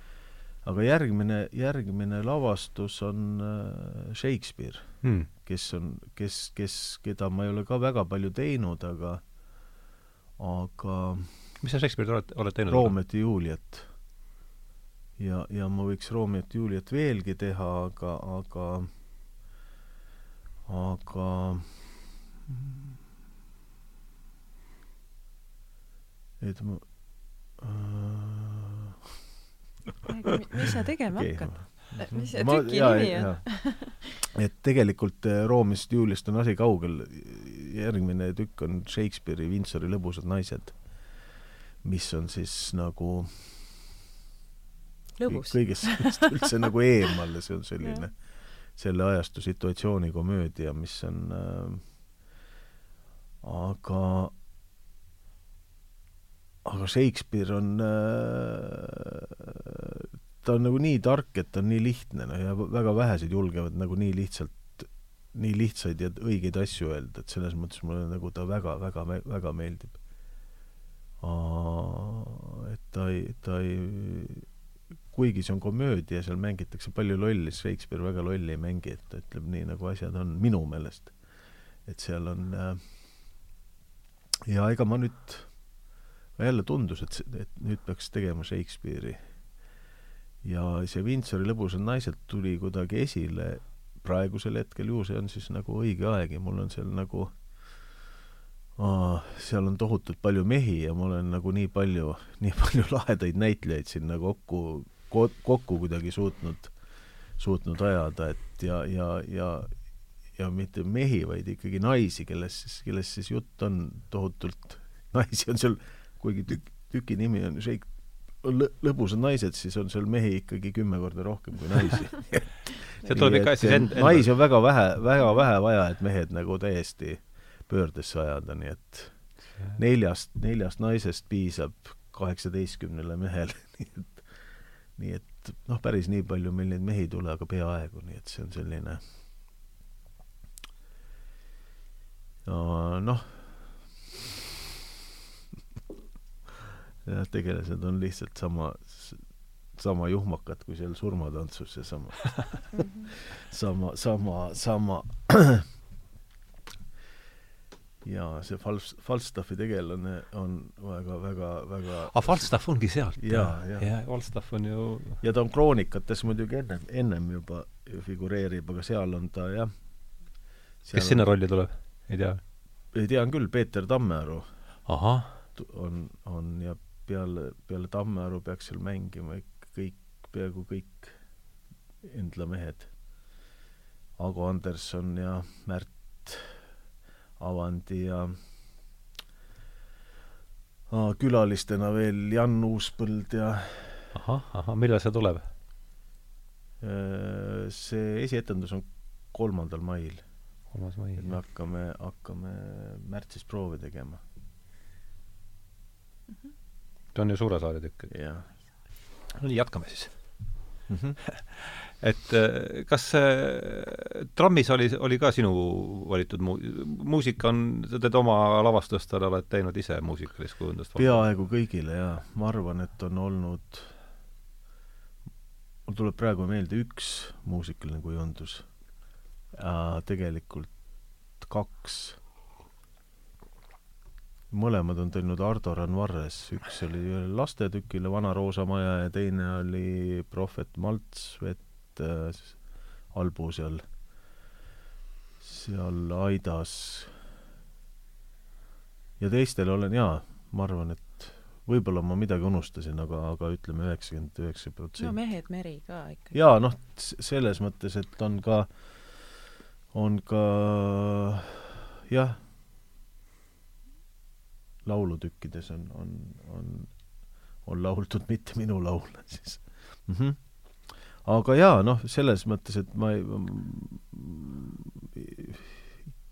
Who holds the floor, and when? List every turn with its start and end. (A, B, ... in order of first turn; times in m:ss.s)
0:00.6-0:09.2 A
0:05.0-0:05.3 B
0:10.4-0:11.3 A
0:11.6-0:13.0 B
0:12.6-0:13.9 A
0:15.2-0:18.9 A
0:20.6-0:22.9 A
0:26.4-0:29.0 A
0:30.0-0:34.1 C
0:31.1-0:41.1 A
0:41.8-0:43.8 A
0:45.2-0:46.4 C
0:45.3-0:51.8 A
0:47.8-0:48.0 C
0:53.4-0:54.3 A
0:56.6-1:10.0 A
1:11.2-1:14.5 A
1:15.1-1:21.2 A
1:21.8-1:23.0 A
1:24.5-1:25.6 A
1:26.4-1:29.3 A
1:30.4-1:37.4 A
1:38.8-1:46.7 A
1:47.3-2:14.3 A
2:03.0-2:04.5 B
2:14.9-2:19.0 A
2:22.4-2:24.4 A
2:27.0-2:35.7 A
2:32.7-2:33.1 C
2:38.0-2:42.6 A
2:42.1-2:45.2 B
2:43.2-2:43.9 A
2:45.2-2:49.8 A
2:50.8-2:51.3 A
2:50.9-2:52.4 B
2:52.9-2:54.5 A
2:54.8-2:55.4 B
2:55.5-3:01.2 A
3:02.0-3:02.9 A
3:04.2-3:06.6 A
3:07.4-3:08.4 A
3:10.9-3:14.1 A
3:14.1-3:15.4 B
3:16.8-3:20.2 A
3:20.7-3:21.4 B
3:21.2-3:24.2 A
3:27.1-3:28.1 B
3:28.1-3:28.4 A
3:29.3-3:30.6 B
3:30.9-3:31.2 A
3:31.3-3:41.3 B
3:41.0-3:43.9 A
3:45.8-3:48.8 A
3:49.5-3:52.2 A
3:54.5-4:03.9 A
4:05.4-4:07.2 A
4:09.2-4:15.2 A
4:15.0-4:16.4 C
4:16.3-4:22.4 A
4:24.8-4:27.0 A
4:27.6-4:36.1 A